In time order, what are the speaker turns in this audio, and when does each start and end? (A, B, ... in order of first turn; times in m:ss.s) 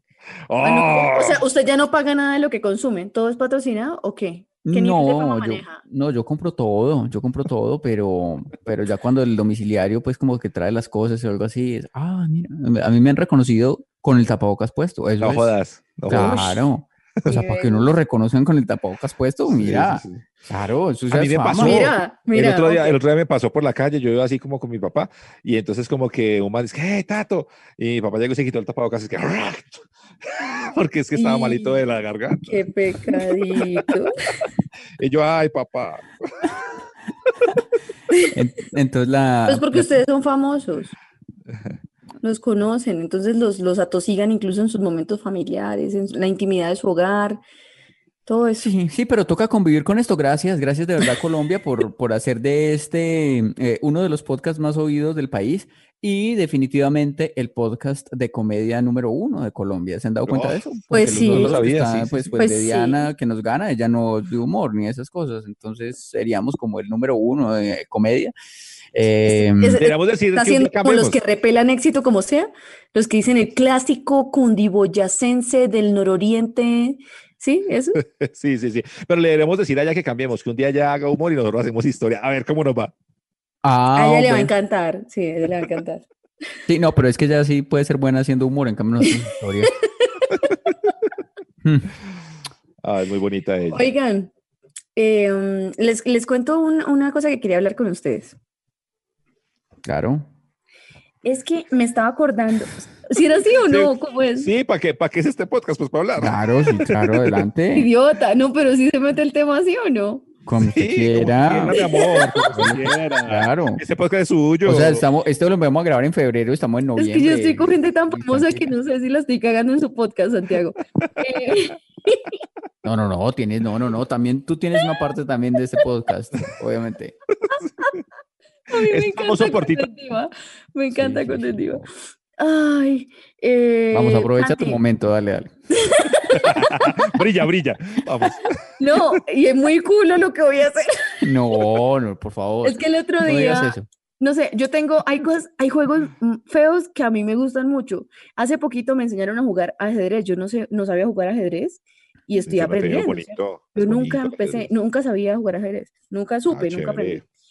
0:00.5-0:01.4 A
0:00.6-0:05.8 B
0:04.6-0:15.5 C
0:15.2-0:16.5 A
0:16.1-0:21.9 C
0:16.1-0:16.5 B
0:17.3-0:17.9 B
0:19.5-0:20.2 A
0:21.1-0:33.6 A
0:21.6-0:23.0 B
0:31.1-0:31.8 B
0:32.5-0:34.1 B
0:35.0-0:36.6 A
0:38.3-0:39.9 C
0:39.5-0:40.9 B
0:42.2-0:47.4 B
0:48.3-0:48.7 B
0:48.6-1:08.3 C
1:00.3-1:02.3 A
1:00.9-1:01.6 B
1:02.4-1:03.0 B
1:08.9-1:09.8 C
1:09.3-1:18.0 B
1:09.8-1:11.2 A
1:18.0-1:22.9 A
1:23.6-1:24.5 C
1:24.0-1:26.0 B
1:26.7-1:29.7 C
1:31.6-1:31.9 C
1:32.8-1:33.9 A
1:33.7-1:34.3 B
1:35.0-1:38.4 B
1:39.8-1:40.3 C
1:41.2-1:44.5 B
1:43.7-1:47.4 A
1:46.2-1:47.9 C
1:47.7-1:50.3 B
1:50.4-1:53.8 C
1:50.6-1:55.0 A
1:51.8-1:52.3 B
1:54.6-1:58.8 C
1:57.0-2:02.3 B
2:02.8-2:07.2 C
2:08.7-2:14.8 B
2:08.9-2:09.8 A
2:10.9-2:11.9 C
2:13.9-2:15.5 C
2:15.7-2:16.9 B
2:16.3-2:18.6 A
2:18.8-2:21.6 B
2:21.2-2:23.9 C
2:22.6-2:37.2 B
2:32.5-2:34.7 A
2:36.5-2:37.2 A